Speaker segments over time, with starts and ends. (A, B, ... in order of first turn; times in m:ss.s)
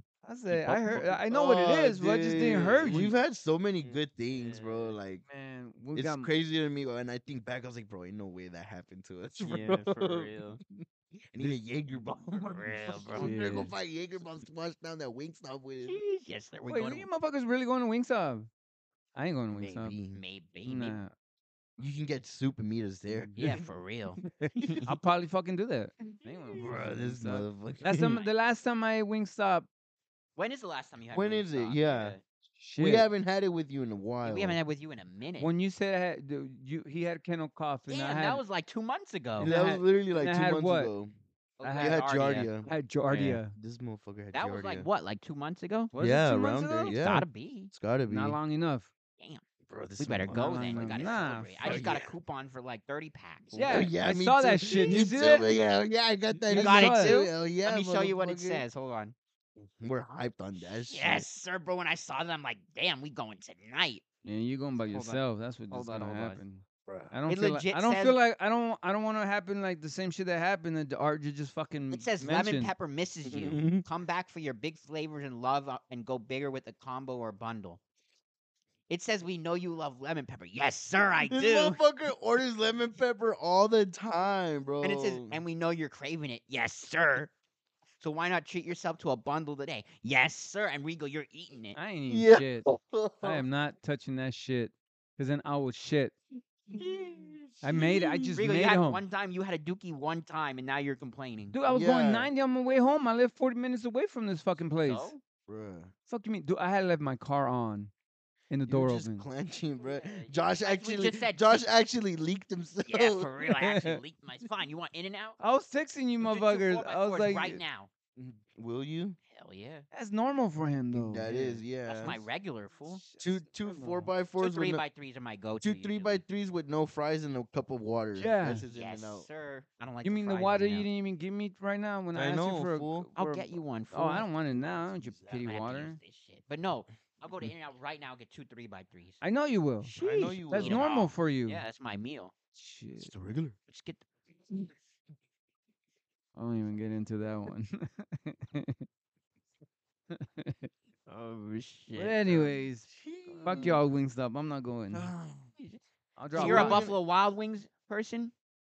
0:00.2-0:03.1 A
0:00.5-0:05.2 B
0:03.8-0:05.0 C
0:05.3-0:06.3 A
0:06.0-0:16.0 B
0:09.4-0:10.6 C
0:12.5-0:13.4 C
0:13.2-0:13.7 A
0:15.9-0:17.1 C
0:16.7-0:18.5 A
0:19.2-0:20.0 A
0:19.5-0:20.2 B
0:20.1-0:21.0 C
0:20.6-0:21.1 A
0:21.8-0:23.6 B
0:23.1-0:23.6 A
0:23.4-0:24.8 C
0:24.4-0:29.7 A
0:26.2-0:26.7 C
0:26.6-0:28.2 B
0:30.4-0:32.2 C
0:31.1-0:32.2 B
0:32.6-0:33.1 A
0:32.8-0:34.6 B
0:34.2-0:35.5 C
0:35.4-0:38.4 A
0:37.9-0:39.6 C
0:39.4-0:41.1 B
0:39.4-0:40.9 A
0:41.6-0:42.5 C
0:41.6-0:42.0 A
0:41.8-0:42.7 B
0:42.6-0:43.6 A
0:43.1-0:43.4 C
0:43.6-0:44.9 B
0:44.3-0:45.9 C
0:45.9-0:47.0 A
0:46.0-0:48.4 B
0:46.9-0:47.7 C
0:48.1-0:48.9 A
0:49.7-0:52.1 B
0:50.0-0:53.9 C
0:50.3-0:51.8 A
0:53.5-0:55.5 A
0:53.7-0:58.6 B
0:54.7-0:55.1 C
0:56.4-0:57.2 A
0:56.5-0:59.2 C
0:59.6-1:01.3 B
1:00.9-1:04.0 C
1:04.2-1:12.7 A
1:04.9-1:06.4 C
1:06.9-1:07.1 B
1:07.3-1:08.2 C
1:11.9-1:17.8 C
1:13.3-1:13.9 B
1:18.9-1:21.8 C
1:21.2-1:25.4 B
1:24.8-1:27.3 C
1:28.0-1:31.8 C
1:31.8-1:32.7 A
1:32.1-1:33.4 B
1:33.2-1:36.2 A
1:36.7-1:38.4 B
1:37.6-1:39.0 A
1:38.4-1:41.6 C
1:41.5-1:45.1 A
1:41.7-1:42.3 B
1:44.8-1:45.2 C
1:45.5-1:45.9 B
1:46.1-1:47.9 A
1:48.5-1:49.3 A
1:48.7-1:53.3 B
1:49.8-1:51.6 C
1:52.9-1:55.4 C
1:53.6-1:54.0 A
1:55.4-1:57.6 A
1:56.2-1:57.9 C
1:58.2-1:59.2 B
1:59.3-1:59.9 C
1:59.9-2:02.1 A
2:00.9-2:02.2 B
2:01.9-2:03.0 C
2:02.9-2:04.1 A
2:03.2-2:04.8 B
2:04.4-2:06.2 C
2:05.6-2:09.3 B
2:08.2-2:08.6 A
2:08.7-2:10.9 C
2:10.0-2:16.0 A
2:12.1-2:13.1 B
2:13.2-2:14.3 C
2:14.6-2:15.4 B
2:15.4-2:19.2 C
2:19.2-2:21.6 A
2:19.8-2:22.3 C
2:19.9-2:20.8 B
2:22.6-2:23.1 A
2:23.0-2:23.6 B
2:23.7-2:24.1 C
2:26.4-2:28.8 A
2:30.1-2:30.7 A
2:31.1-2:32.6 C
2:31.9-2:32.9 A
2:32.9-2:33.9 B
2:33.3-2:33.8 C
2:33.4-2:35.1 A
2:34.9-2:35.5 B
2:35.6-2:38.3 C
2:36.2-2:36.9 A
2:36.3-2:37.0 B